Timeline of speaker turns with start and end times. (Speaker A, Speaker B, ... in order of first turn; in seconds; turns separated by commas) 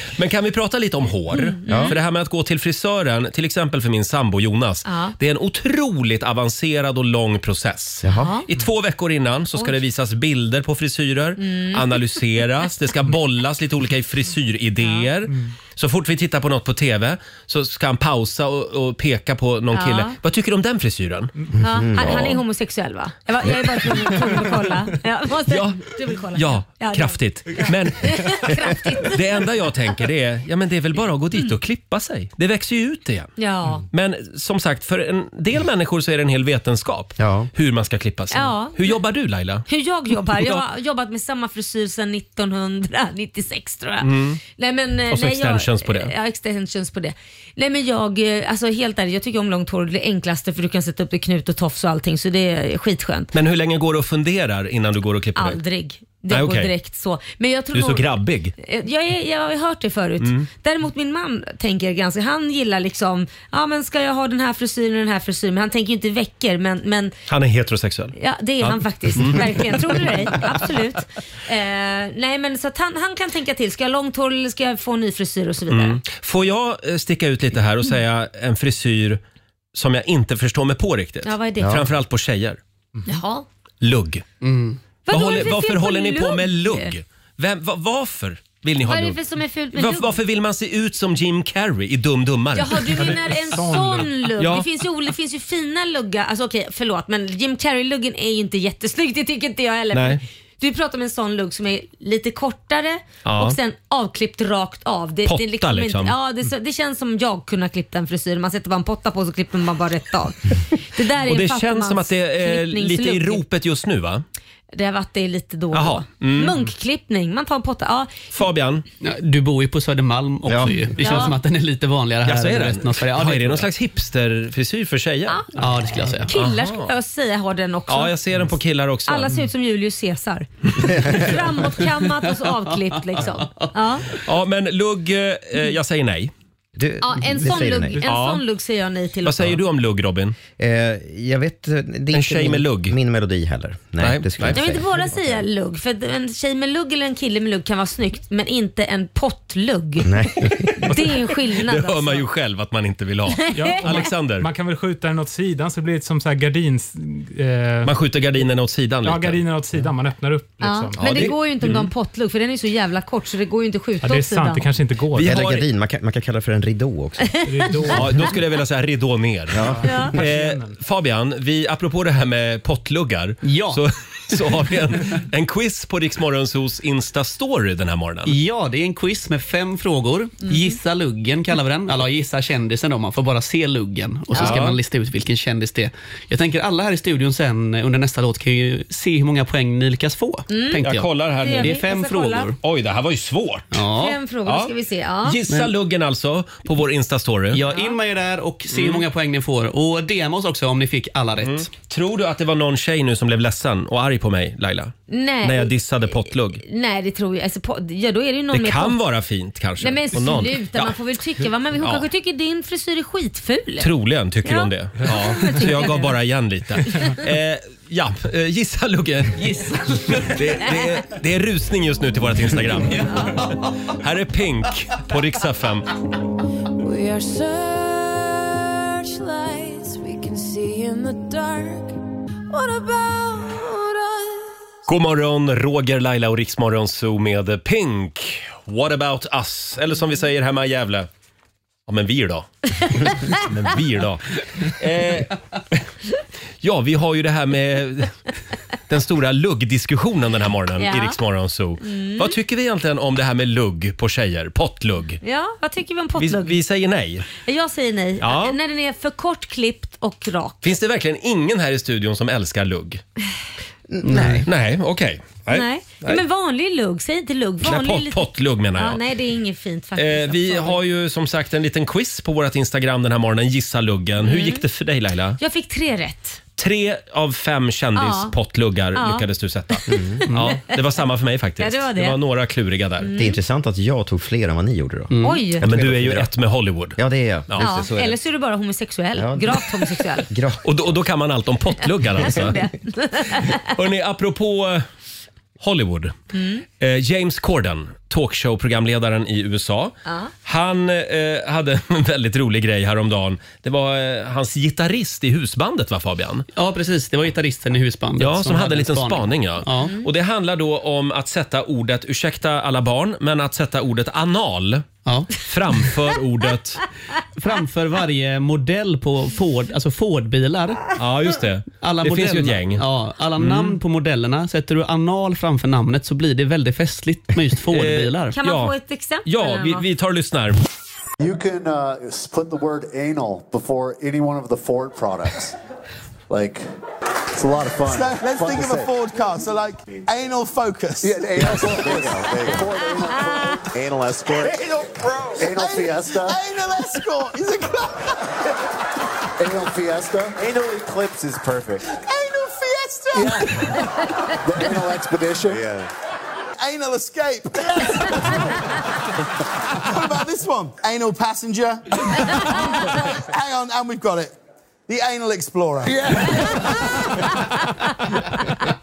Speaker A: 0.2-21.3, Speaker B: 1.4-1.9, Speaker C: 1.7-1.9, Speaker B: 4.8-5.1, Speaker C: 8.0-8.3, Speaker B: 8.2-8.4, Speaker B: 11.4-12.0, Speaker B: 14.8-15.1, Speaker B: 19.7-20.2, Speaker C: 21.6-22.3, Speaker B: 21.6-29.2, Speaker A: 21.9-22.4, Speaker A: 23.8-24.1, Speaker A: 25.5-33.3, Speaker B: 33.4-33.8, Speaker A: 33.9-39.7, Speaker C: 37.2-37.5, Speaker B: 38.3-39.0, Speaker B: 39.7-53.3, Speaker A: 40.2-40.6, Speaker A: 44.0-44.4, Speaker A: 45.1-46.1, Speaker A: 53.3-55.6, Speaker B: 55.4-58.1, Speaker A: 56.3-56.7, Speaker A: 57.7-58.5, Speaker B: 58.6-67.2, Speaker A: 60.2-60.5, Speaker A: 67.3-70.5, Speaker B: 68.2-76.0, Speaker A: 75.7-79.2, Speaker A: 79.7-82.6, Speaker B: 81.2-81.8, Speaker B: 83.1-83.5, Speaker A: 83.8-84.2, Speaker D: 84.4-84.8, Speaker B: 85.1-86.9, Speaker A: 85.1-89.2, Speaker B: 88.8-90.1, Speaker A: 89.7-93.2, Speaker B: 92.5-113.4, Speaker E: 92.9-94.3, Speaker A: 94.4-94.7, Speaker A: 99.9-100.2, Speaker A: 103.2-103.6, Speaker A: 105.3-106.2, Speaker A: 111.2-114.2, Speaker B: 114.7-118.2, Speaker A: 115.7-116.6, Speaker A: 118.3-118.8, Speaker D: 119.0-123.7, Speaker C: 120.5-120.8, Speaker B: 121.0-121.3, Speaker A: 122.2-125.5, Speaker D: 125.6-126.3, Speaker B: 126.3-128.1, Speaker A: 126.3-126.9, Speaker A: 127.9-129.3, Speaker B: 129.1-134.1, Speaker C: 130.9-131.2, Speaker D: 133.3-133.7, Speaker A: 134.2-136.3, Speaker C: 136.8-138.0, Speaker B: 137.0-139.6, Speaker A: 138.1-138.4, Speaker A: 139.2-140.4, Speaker C: 140.6-145.2, Speaker A: 142.1-142.9, Speaker A: 144.0-144.6, Speaker B: 144.5-150.2, Speaker C: 150.0-150.8, Speaker B: 150.8-152.2, Speaker A: 151.6-154.5, Speaker B: 153.5-154.0, Speaker E: 153.5-157.9, Speaker A: 157.8-159.4, Speaker E: 159.0-161.3, Speaker B: 160.6-164.7, Speaker A: 161.0-161.9, Speaker E: 164.0-165.4, Speaker C: 165.1-167.4, Speaker A: 165.2-165.7, Speaker E: 167.5-168.3, Speaker A: 167.9-178.3, Speaker C: 169.5-169.8, Speaker E: 169.6-170.7, Speaker B: 169.8-170.2, Speaker D: 173.4-173.8, Speaker D: 178.2-192.6, Speaker A: 184.3-184.8, Speaker B: 190.5-190.9, Speaker A: 190.8-191.8, Speaker B: 191.4-192.5, Speaker A: 192.6-193.7, Speaker D: 193.7-194.2, Speaker B: 194.0-195.4, Speaker A: 194.5-194.7, Speaker A: 195.2-197.6, Speaker D: 197.5-201.7, Speaker A: 198.7-199.1, Speaker A: 201.4-206.6, Speaker B: 205.1-205.7, Speaker B: 206.6-209.0, Speaker A: 208.5-211.0, Speaker B: 209.8-213.9, Speaker A: 211.8-212.1, Speaker A: 213.8-219.6, Speaker B: 214.4-216.0, Speaker D: 219.4-220.5, Speaker A: 220.1-225.9, Speaker F: 226.8-232.0, Speaker F: 232.5-234.6, Speaker A: 234.9-241.1, Speaker A: 241.9-245.8, Speaker A: 246.6-248.2, Speaker A: 248.9-255.2, Speaker B: 250.8-251.2, Speaker B: 251.8-252.3, Speaker B: 255.2-256.6, Speaker A: 256.2-257.3, Speaker B: 257.4-260.6, Speaker A: 258.2-258.6, Speaker A: 260.6-263.0, Speaker C: 263.9-264.5, Speaker D: 264.0-264.5, Speaker A: 264.4-266.2, Speaker B: 265.5-270.8, Speaker A: 267.6-269.0, Speaker A: 270.0-275.4, Speaker B: 274.2-274.6, Speaker B: 275.4-276.4, Speaker A: 276.6-283.1, Speaker B: 278.0-278.3, Speaker B: 279.0-279.2, Speaker C: 279.9-280.2, Speaker D: 280.3-280.6, Speaker B: 281.6-282.2, Speaker B: 283.0-283.4, Speaker C: 283.1-286.3, Speaker D: 285.1-285.4, Speaker B: 285.2-285.6, Speaker A: 285.6-287.0, Speaker C: 287.0-288.2, Speaker B: 287.6-290.3, Speaker C: 289.2-290.6, Speaker A: 290.6-292.6, Speaker B: 292.2-293.6, Speaker A: 293.5-294.8, Speaker A: 295.6-296.1, Speaker B: 296.3-296.6, Speaker A: 296.8-306.5, Speaker B: 300.1-300.3, Speaker D: 306.6-309.9, Speaker A: 308.2-316.8, Speaker D: 315.1-315.4, Speaker D: 317.4-320.9, Speaker A: 320.9-322.9, Speaker D: 321.8-328.4, Speaker A: 323.4-323.8, Speaker A: 327.7-328.7, Speaker B: 328.3-329.8, Speaker A: 329.2-330.6, Speaker G: 331.2-335.6, Speaker G: 336.3-336.6, Speaker G: 337.4-338.9, Speaker H: 337.9-342.6, Speaker G: 341.0-346.4, Speaker H: 344.4-348.1, Speaker G: 349.4-351.8, Speaker H: 352.0-353.7, Speaker G: 353.1-353.5, Speaker G: 354.4-355.9, Speaker H: 356.6-358.4, Speaker H: 359.8-364.3, Speaker H: 364.9-366.6